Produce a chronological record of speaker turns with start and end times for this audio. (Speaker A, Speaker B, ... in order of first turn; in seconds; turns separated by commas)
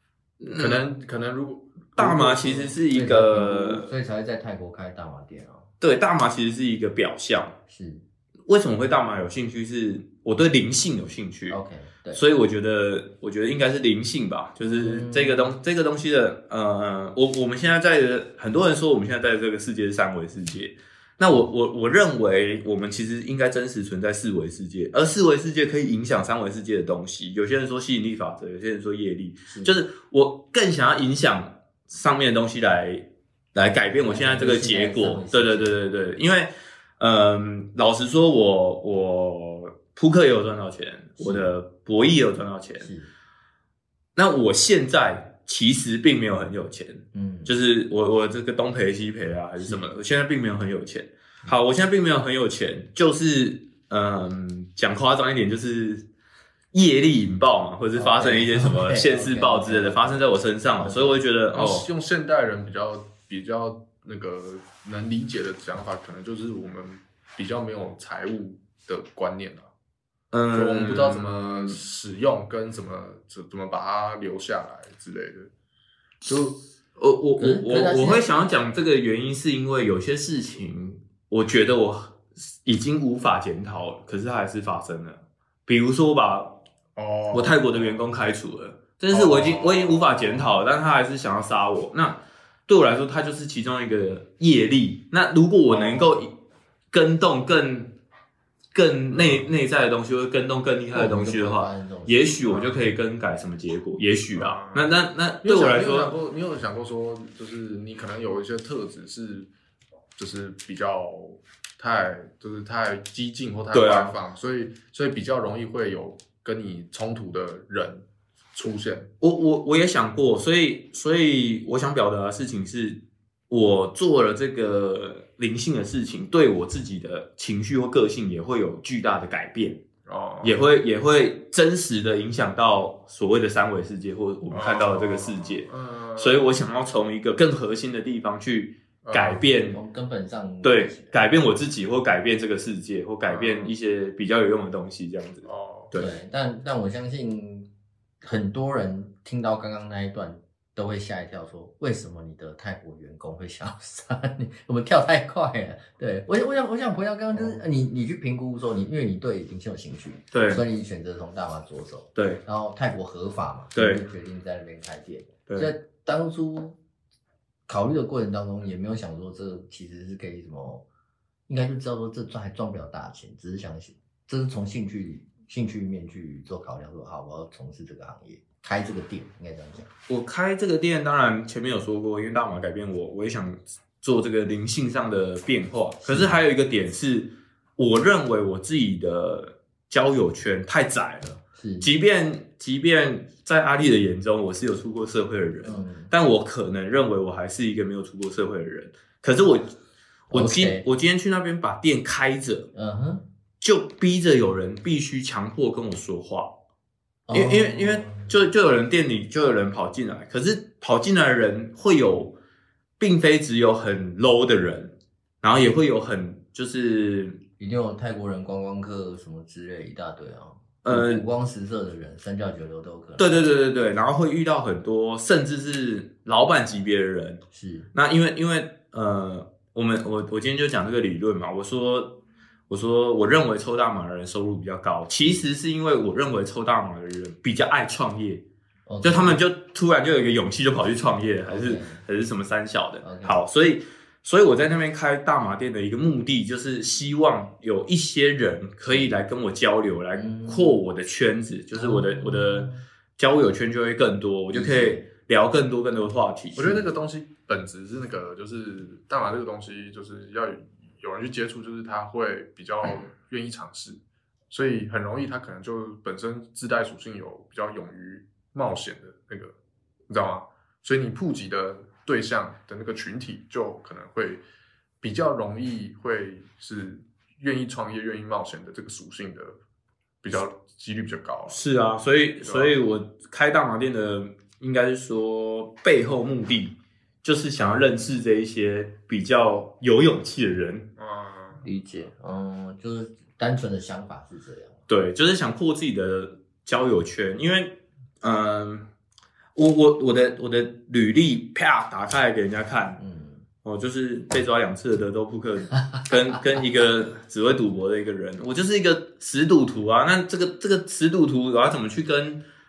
Speaker A: 0.4-0.8, Speaker B: 0.6-2.8, Speaker A: 1.9-3.9, Speaker C: 2.9-5.7, Speaker A: 5.8-7.6, Speaker C: 7.7-8.0, Speaker A: 8.5-11.6, Speaker C: 11.5-12.2, Speaker A: 12.1-42.9, Speaker C: 14.6-15.5, Speaker C: 29.5-29.8, Speaker C: 34.0-35.8, Speaker C: 41.2-41.5, Speaker C: 42.8-43.1, Speaker A: 44.1-56.1, Speaker C: 47.1-47.5, Speaker C: 49.6-49.9, Speaker A: 56.7-61.9, Speaker C: 58.0-61.2, Speaker B: 61.5-69.7, Speaker A: 70.3-71.8, Speaker B: 70.5-75.5, Speaker B: 76.2-76.6, Speaker A: 77.0-86.6, Speaker C: 77.4-78.3, Speaker B: 87.0-88.0, Speaker A: 87.3-96.3, Speaker B: 89.1-90.5, Speaker B: 95.7-96.2, Speaker A: 96.9-98.0, Speaker A: 98.7-106.1, Speaker C: 100.9-102.8, Speaker B: 104.3-109.5, Speaker B: 110.2-119.1, Speaker A: 113.7-114.2, Speaker A: 119.2-129.8, Speaker B: 130.1-130.6, Speaker A: 130.4-139.8, Speaker B: 134.5-136.4, Speaker B: 139.0-139.4, Speaker C: 139.6-141.2, Speaker A: 140.6-146.1, Speaker B: 143.2-143.7, Speaker B: 145.4-145.9, Speaker C: 145.9-147.7, Speaker C: 148.2-166.8, Speaker A: 160.3-160.6, Speaker A: 162.1-162.4, Speaker A: 163.7-164.0, Speaker A: 165.5-165.7, Speaker C: 167.7-170.8, Speaker C: 171.5-179.9, Speaker A: 180.1-199.7, Speaker C: 186.0-186.3, Speaker C: 191.5-191.9, Speaker C: 195.6-196.1, Speaker C: 200.3-200.8, Speaker A: 200.3-202.7, Speaker C: 202.7-203.2, Speaker A: 203.6-206.6, Speaker C: 207.3-208.3, Speaker A: 207.3-212.4, Speaker A: 213.0-217.4, Speaker C: 217.6-223.5, Speaker A: 220.8-221.2, Speaker A: 223.2-227.4, Speaker C: 227.5-227.9, Speaker A: 227.9-238.4, Speaker C: 238.9-239.4, Speaker A: 239.0-256.8, Speaker C: 241.4-242.0, Speaker C: 243.0-243.4, Speaker C: 250.1-250.8, Speaker C: 251.7-252.8, Speaker C: 254.5-255.1, Speaker B: 256.6-264.0, Speaker B: 264.5-269.5, Speaker B: 270.1-274.4, Speaker B: 275.0-279.6, Speaker B: 280.2-281.6, Speaker A: 281.5-290.9, Speaker B: 282.4-282.7, Speaker B: 291.0-291.6, Speaker C: 291.6-294.8, Speaker A: 294.9-298.9, Speaker A: 299.5-303.0, Speaker C: 303.0-303.4, Speaker A: 303.6-312.4